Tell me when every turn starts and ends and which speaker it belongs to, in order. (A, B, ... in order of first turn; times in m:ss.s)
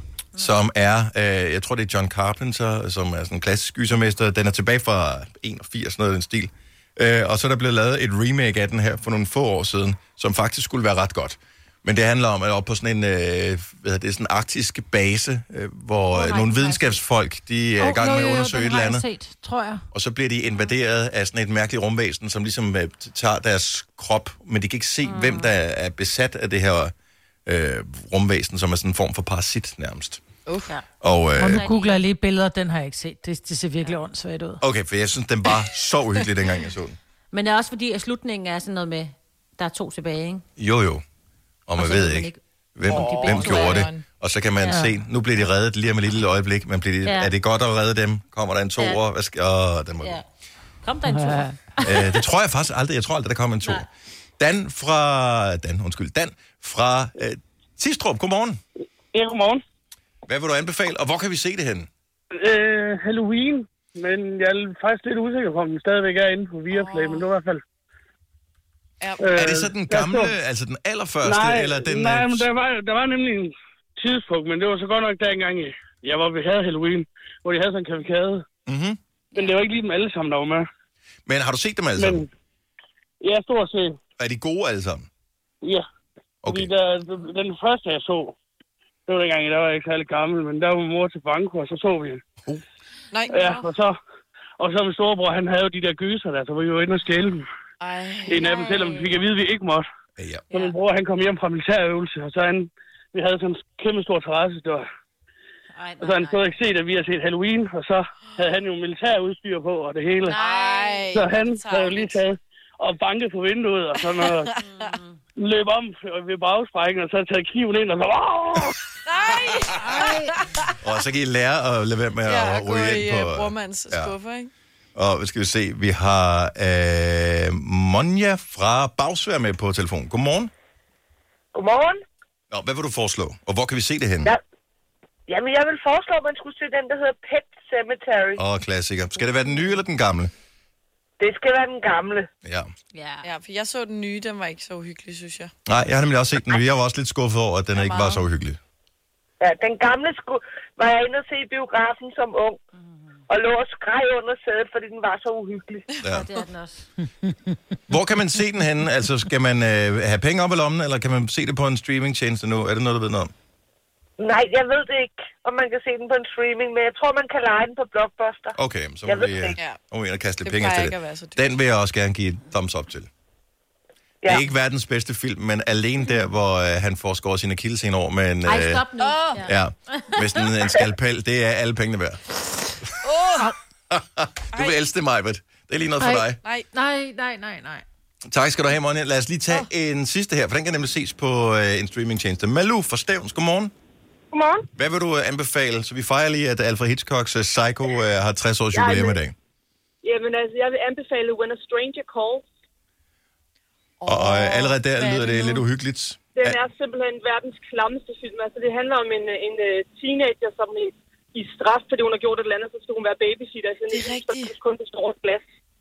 0:00.4-0:19.0 A
0:16.1-0:17.0 B
0:17.8-0:19.8 C
0:19.9-0:26.9 A
0:25.0-0:25.5 B
0:27.5-0:30.2 A
0:30.5-0:30.7 D
0:31.0-0:31.6 A
0:31.4-0:34.6 C
0:31.4-0:32.0 B
0:34.6-0:37.0 A
0:37.3-0:40.4 B
0:40.6-0:41.0 A
0:41.7-0:50.2 A
0:41.8-0:43.9 B
0:42.9-0:44.0 D
0:44.6-0:44.9 B
0:47.0-0:47.3 B
0:50.8-0:52.2 B
0:51.1-0:51.6 C
0:51.8-0:53.9 A
0:54.4-0:58.6 A
0:59.1-0:59.6 E
1:00.3-1:01.9 A
1:02.4-1:07.6 E
1:06.7-1:07.2 D
1:09.0-1:09.5 D
1:09.2-1:10.4 E
1:09.4-1:12.5 A
1:11.2-1:18.4 E
1:18.7-1:19.0 A
1:19.4-1:20.7 E
1:21.3-1:22.2 A
1:22.0-1:22.3 E
1:23.2-1:24.0 E
1:24.2-1:25.1 A
1:26.4-1:26.7 A
1:26.5-1:28.4 E
1:29.1-1:32.2 E
1:33.1-1:33.7 D
1:33.3-1:34.0 E
1:34.6-1:37.5 E
1:37.8-1:39.2 D
1:38.3-1:39.9 E
1:40.2-1:40.5 A
1:40.5-1:44.8 E
1:45.7-1:46.6 B
1:46.0-1:50.3 E
1:50.2-1:51.2 B
1:50.3-1:52.2 D
1:51.1-1:54.5 E
1:54.2-1:54.9 D
1:54.6-1:55.2 B
1:55.4-1:58.8 E
1:59.1-2:00.8 D
1:59.1-2:00.3 B
2:00.8-2:04.1 A
2:02.3-2:04.5 D
2:04.9-2:10.5 A
2:11.5-2:12.0 F
2:12.5-2:14.3 A
2:15.3-2:18.4 F
2:18.4-2:20.3 A
2:21.2-2:22.3 F
2:22.4-2:22.7 A
2:22.9-2:23.3 B
2:23.2-2:25.5 D
2:25.7-2:28.6 A
2:27.8-2:28.2 D
2:29.4-2:32.6 F
2:32.8-2:33.2 B
2:33.3-2:35.8 F
2:36.0-2:36.3 A
2:36.0-2:36.9 B
2:37.9-2:43.3 A
2:44.2-2:49.6 F
2:48.6-2:53.1 A
2:50.4-2:51.5 D
2:54.3-2:58.8 A
2:58.4-3:00.2 B
2:59.0-2:59.4 D
2:59.4-3:02.2 A
3:03.0-3:03.5 D
3:03.9-3:06.4 A
3:06.0-3:07.8 C
3:08.3-3:13.7 A
3:14.3-3:14.7 G
3:14.8-3:19.3 A
3:18.7-3:19.2 G
3:20.0-3:22.4 G
3:24.0-3:25.7 D
3:24.1-3:26.6 A
3:26.4-3:35.4 G
3:33.9-3:34.5 D